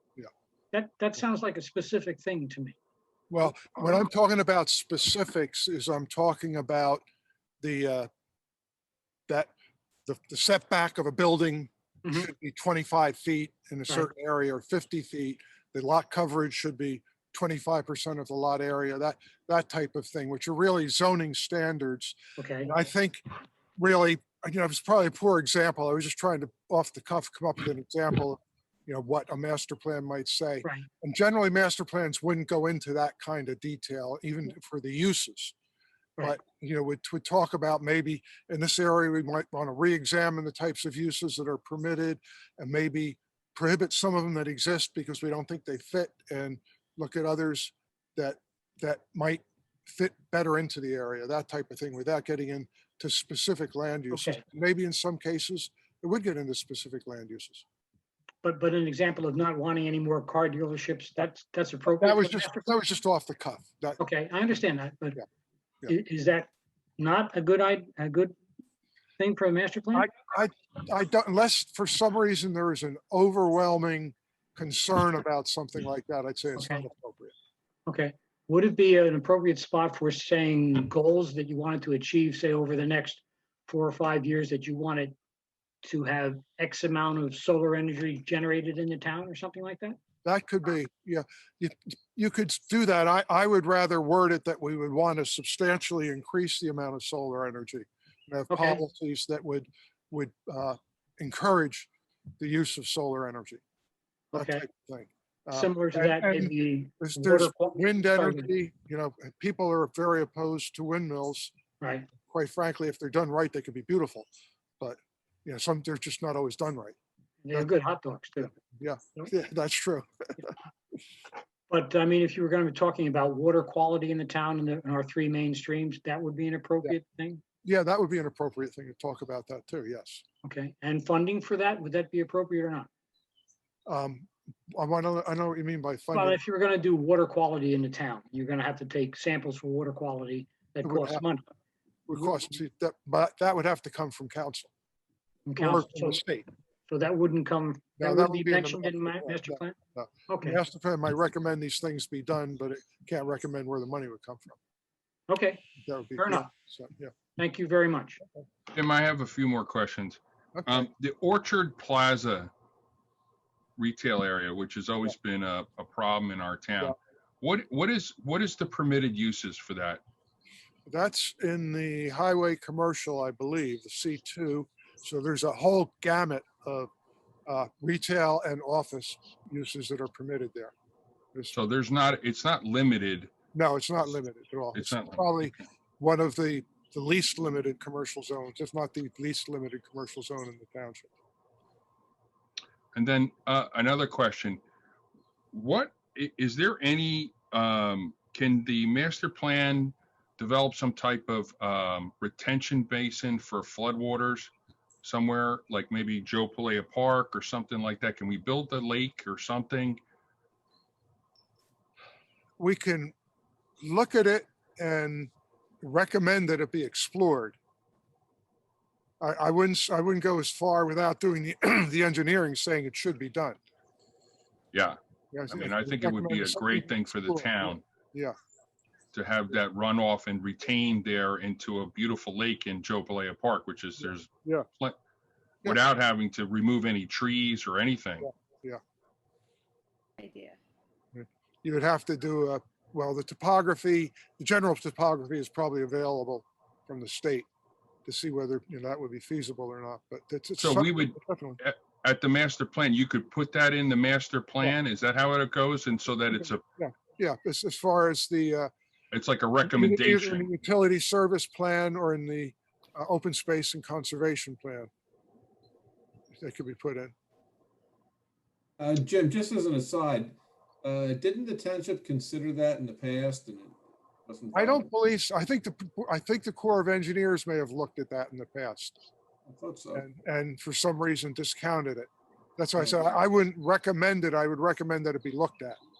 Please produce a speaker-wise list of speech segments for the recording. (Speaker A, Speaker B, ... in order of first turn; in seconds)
Speaker A: 0.7-2.8, 22.4-22.7, 54.1-54.4, 58.4-62.6, 64.0-65.2, 65.9-68.3, 69.2-70.1, 76.6-76.8, 77.9-85.1, 85.8-90.0, 98.5-98.8, 104.3-104.7, 105.5-108.5, 111.8-112.1, 117.4-118.5, 121.7-127.4, 130.4-132.9, 136.1-141.4, 145.5-146.2, 146.9-149.8, 150.3-150.6, 155.3-155.6, 156.2-156.5, 157.4-158.2
Speaker B: 3.3-7.0, 7.6-8.1, 10.1-23.2, 23.8-35.5, 36.2-57.6, 62.0-64.0, 70.0-77.3, 90.2-101.9, 102.4-103.6, 104.3-111.5, 112.3-114.3, 114.8-117.0, 118.4-120.5, 127.6-130.2, 133.9-136.4, 140.8-141.2, 142.1-144.7, 145.6-146.5, 148.0-154.6, 155.8-157.1, 160.6-160.9, 170.9-176.9, 177.5-180.7, 183.5-191.1, 212.6-213.1, 213.8-215.3, 215.8-217.6, 219.2-223.6, 225.3-228.3, 238.2-238.8, 241.1-247.5, 248.1-251.6, 256.4-258.7, 259.6-264.9, 266.4-267.1, 274.5-279.0, 279.9-285.8
Speaker C: 158.7-162.5, 163.8-170.0, 181.5-183.3, 184.8-185.4, 192.9-194.6, 195.5-204.5, 205.0-210.0, 225.5-227.8, 229.1-235.0, 235.6-238.3, 250.6-256.6, 259.1-260.5
Speaker D: 268.8-274.9, 279.5-280.1, 282.8-283.2